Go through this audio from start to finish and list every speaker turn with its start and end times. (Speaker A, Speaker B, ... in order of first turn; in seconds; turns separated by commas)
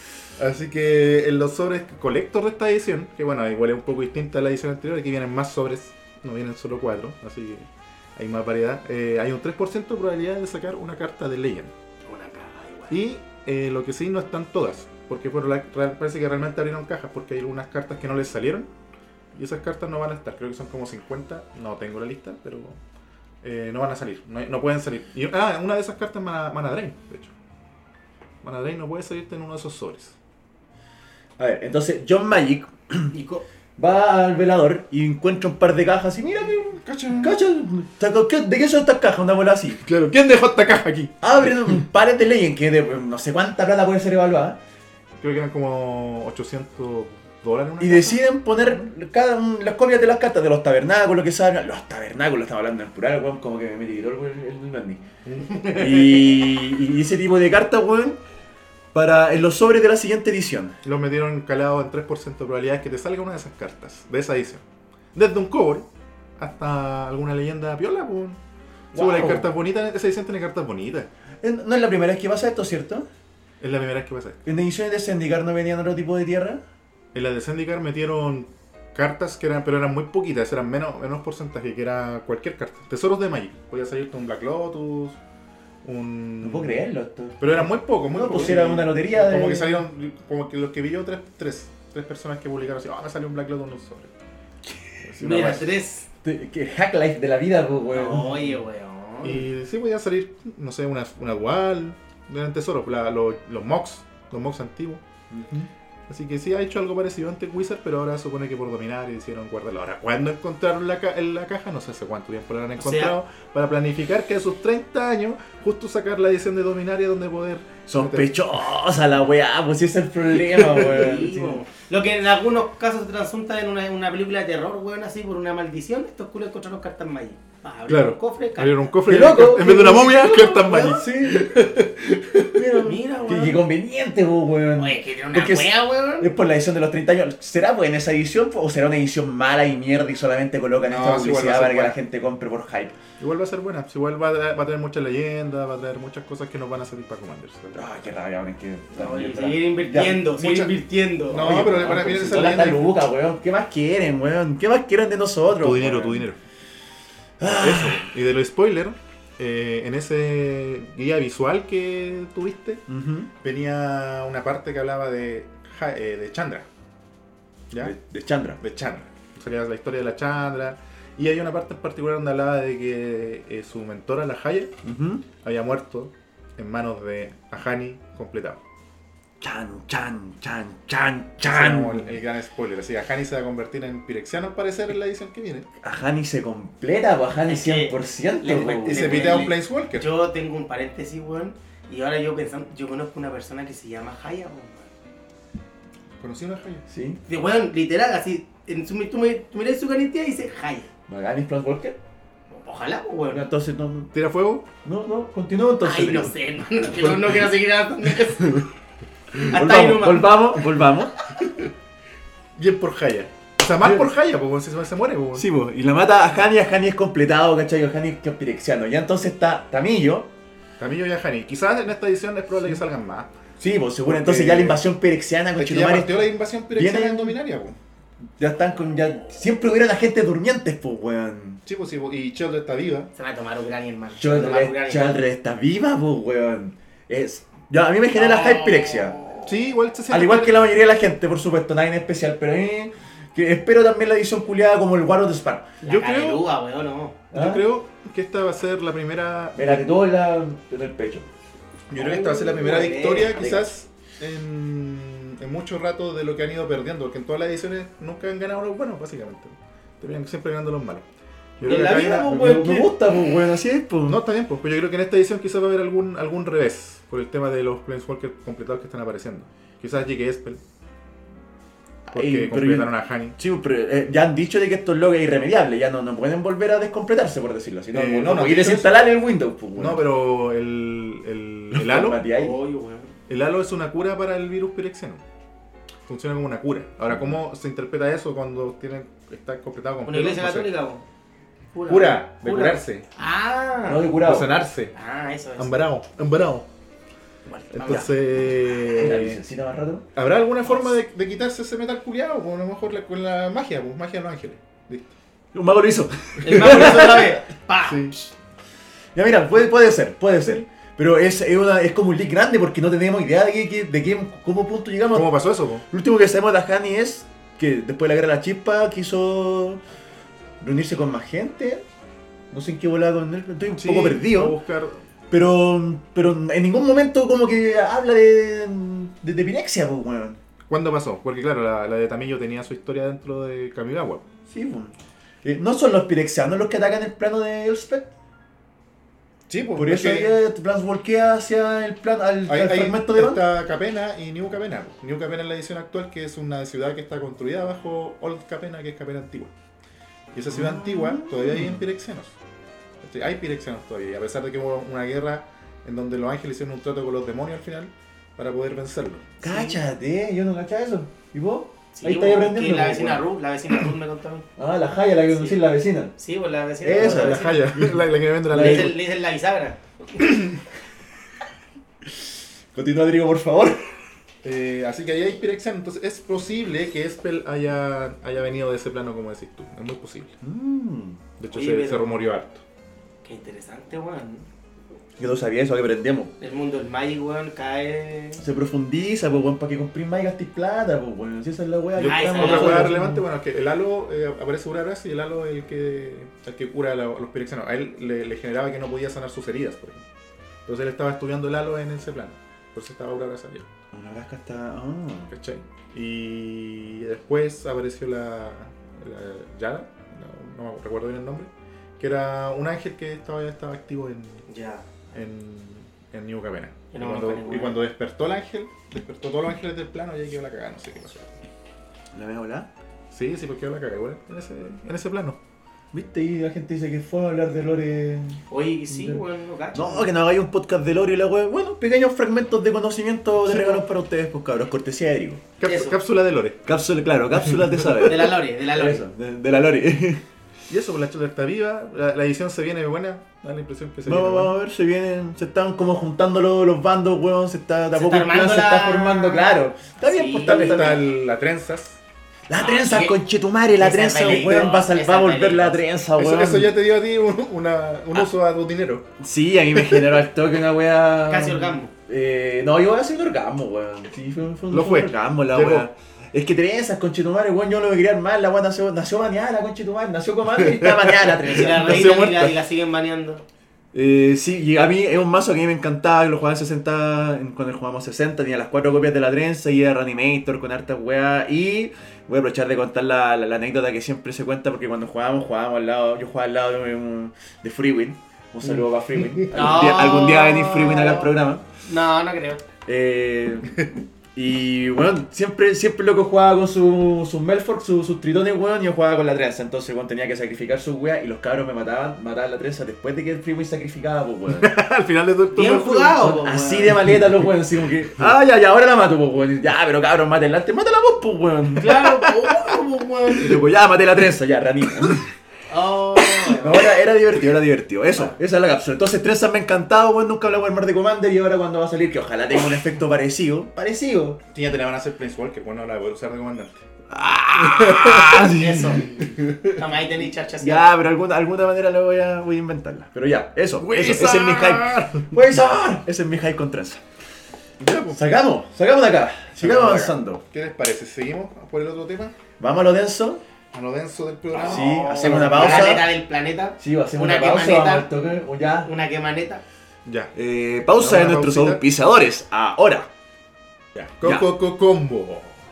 Speaker A: 0.4-11.7, Speaker B: 12.1-13.0, Speaker A: 12.9-18.7, Speaker A: 19.3-22.8, Speaker A: 23.4-27.3, Speaker A: 28.4-30.2, Speaker C: 31.4-33.1, Speaker B: 33.1-33.4, Speaker C: 33.8-39.8, Speaker A: 36.8-37.4, Speaker A: 39.8-41.5, Speaker C: 41.2-44.6, Speaker A: 45.2-48.9, Speaker C: 47.8-55.0, Speaker A: 55.2-55.9, Speaker C: 55.7-58.2, Speaker C: 58.9-60.8, Speaker A: 60.8-64.6, Speaker A: 65.1-68.4, Speaker C: 68.9-69.5, Speaker A: 68.9-71.1, Speaker C: 71.4-73.1, Speaker A: 73.6-74.4, Speaker C: 74.5-76.6, Speaker A: 77.1-85.2, Speaker A: 85.8-86.8, Speaker C: 86.4-89.7, Speaker A: 87.4-94.1, Speaker A: 95.1-95.7, Speaker C: 95.1-95.7, Speaker B: 95.2-96.1, Speaker C: 96.2-98.4, Speaker B: 97.9-99.5, Speaker A: 99.2-105.0, Speaker C: 105.3-105.7, Speaker A: 106.1-118.3, Speaker B: 112.8-113.1, Speaker C: 117.9-121.6, Speaker B: 120.7-128.8, Speaker A: 127.9-132.8, Speaker C: 129.1-131.6, Speaker B: 130.6-131.0, Speaker C: 132.5-143.0, Speaker B: 132.8-133.6, Speaker B: 134.8-136.3, Speaker A: 140.8-142.0, Speaker A: 143.2-148.1, Speaker C: 147.8-150.3, Speaker B: 148.9-151.9, Speaker A: 150.4-150.8, Speaker A: 151.3-152.9, Speaker C: 151.3-156.3, Speaker A: 155.5-156.4, Speaker C: 157.4-158.1, Speaker A: 157.4-162.8, Speaker C: 162.9-163.3, Speaker A: 163.4-166.7, Speaker C: 167.8-168.6, Speaker A: 168.6-174.7, Speaker C: 174.8-175.2, Speaker A: 175.4-178.6, Speaker C: 179.4-182.2, Speaker A: 181.4-185.7, Speaker C: 185.8-189.5, Speaker B: 187.5-194.9, Speaker A: 188.9-190.1, Speaker A: 196.2-196.8, Speaker C: 196.9-197.2, Speaker B: 197.3-200.9, Speaker C: 201.1-202.0, Speaker B: 202.5-203.4, Speaker C: 203.3-204.1, Speaker A: 204.1-204.7, Speaker C: 204.8-206.3, Speaker B: 205.8-208.6, Speaker C: 209.4-211.1, Speaker B: 209.5-210.5, Speaker A: 211.4-211.7, Speaker A: 212.6-215.5, Speaker C: 215.3-220.3, Speaker A: 220.8-223.3, Speaker C: 223.6-227.4, Speaker A: 224.1-224.8, Speaker A: 225.6-227.8, Speaker C: 228.4-231.6, Speaker A: 231.7-233.1, Speaker B: 233.2-235.2, Speaker C: 234.2-239.2, Speaker B: 238.2-239.6, Speaker A: 239.5-240.6, Speaker C: 240.1-245.7, Speaker B: 245.8-247.2, Speaker A: 245.9-246.4, Speaker C: 247.3-247.6, Speaker A: 247.3-249.9, Speaker C: 249.6-251.3, Speaker A: 251.9-261.1, Speaker B: 251.9-253.7, Speaker A: 261.6-262.9, Speaker C: 261.6-264.2, Speaker B: 261.6-262.3, Speaker A: 264.1-270.6, Speaker A: 272.1-273.4, Speaker C: 272.1-280.0, Speaker A: 277.9-279.0, Speaker A: 279.8-282.3, Speaker C: 281.7-282.6, Speaker B: 282.4-283.1, Speaker A: 283.3-285.2, Speaker A: 286.1-290.7, Speaker B: 290.1-291.0, Speaker B: 291.7-294.1, Speaker A: 291.9-293.1, Speaker C: 293.8-294.5, Speaker A: 294.2-294.9, Speaker B: 294.9-295.7, Speaker A: 295.6-296.7, Speaker B: 297.5-298.1, Speaker A: 297.7-299.4, Speaker C: 298.8-300.1, Speaker A: 300.2-305.1, Speaker C: 305.5-307.4, Speaker B: 306.4-308.3, Speaker A: 306.5-307.1, Speaker A: 307.8-308.2, Speaker C: 309.1-315.4, Speaker A: 315.1-315.9, Speaker C: 315.9-319.8, Speaker C: 320.6-321.8, Speaker C: 322.5-324.6, Speaker A: 323.8-325.0, Speaker C: 325.3-330.4, Speaker A: 330.7-334.2, Speaker C: 334.5-338.1, Speaker A: 339.5-340.3, Speaker C: 339.8-343.4, Speaker A: 342.5-349.5, Speaker A: 350.3-352.4, Speaker C: 350.5-351.8, Speaker A: 353.0-359.4, Speaker C: 359.4-363.2, Speaker B: 359.4-359.8, Speaker B: 361.9-364.5, Speaker C: 364.6-366.1, Speaker B: 365.3-365.6, Speaker B: 366.1-367.7, Speaker C: 366.8-369.0, Speaker A: 367.0-369.0, Speaker B: 368.5-370.4, Speaker A: 370.2-370.5, Speaker C: 372.7-373.9, Speaker A: 374.4-380.3, Speaker C: 380.4-381.2, Speaker A: 381.4-382.6, Speaker B: 381.5-382.3, Speaker B: 383.2-384.5, Speaker C: 385.2-386.3, Speaker B: 386.4-388.4, Speaker C: 388.4-393.2, Speaker A: 392.0-400.1, Speaker B: 392.0-392.9, Speaker A: 400.7-403.7, Speaker C: 403.9-405.3, Speaker A: 405.3-414.4, Speaker B: 414.5-414.9, Speaker A: 415.1-421.4, Speaker B: 416.9-417.8, Speaker C: 422.1-422.7, Speaker A: 423.1-425.4, Speaker C: 425.9-429.2, Speaker B: 428.5-430.1, Speaker C: 429.7-435.4, Speaker A: 433.4-433.8, Speaker A: 435.6-436.7, Speaker B: 435.6-436.0, Speaker C: 436.7-440.2, Speaker A: 437.6-437.8, Speaker B: 438.0-439.0, Speaker A: 440.7-444.5, Speaker C: 444.1-451.0, Speaker B: 447.9-451.0, Speaker A: 450.4-452.0, Speaker C: 452.5-456.7, Speaker B: 452.6-453.2, Speaker B: 453.8-455.8, Speaker A: 456.2-459.1, Speaker C: 459.2-472.1, Speaker A: 459.7-460.2, Speaker B: 461.3-461.9, Speaker A: 464.7-465.9, Speaker A: 470.6-472.6, Speaker B: 471.5-473.4, Speaker C: 473.9-491.6, Speaker A: 488.6-489.5, Speaker B: 489.5-491.3, Speaker B: 491.8-492.6, Speaker C: 492.9-493.8, Speaker C: 494.4-504.7, Speaker A: 504.5-506.4, Speaker B: 505.5-507.0, Speaker C: 506.2-512.3, Speaker A: 507.0-507.3, Speaker B: 511.8-513.6, Speaker C: 513.4-515.3, Speaker B: 515.7-516.9, Speaker C: 516.5-524.4, Speaker A: 524.5-526.8, Speaker C: 527.1-529.2, Speaker A: 527.5-529.8, Speaker B: 528.5-530.9, Speaker C: 530.6-537.0, Speaker A: 533.8-535.4, Speaker A: 537.8-538.2, Speaker C: 538.1-540.4, Speaker A: 539.6-542.4, Speaker C: 542.6-543.4, Speaker A: 543.7-546.0, Speaker B: 544.5-548.1, Speaker C: 544.6-546.2, Speaker C: 546.8-548.9, Speaker B: 548.8-549.6, Speaker A: 550.1-550.3, Speaker C: 550.4-553.1, Speaker A: 551.0-551.8, Speaker A: 554.0-555.6, Speaker C: 554.2-554.5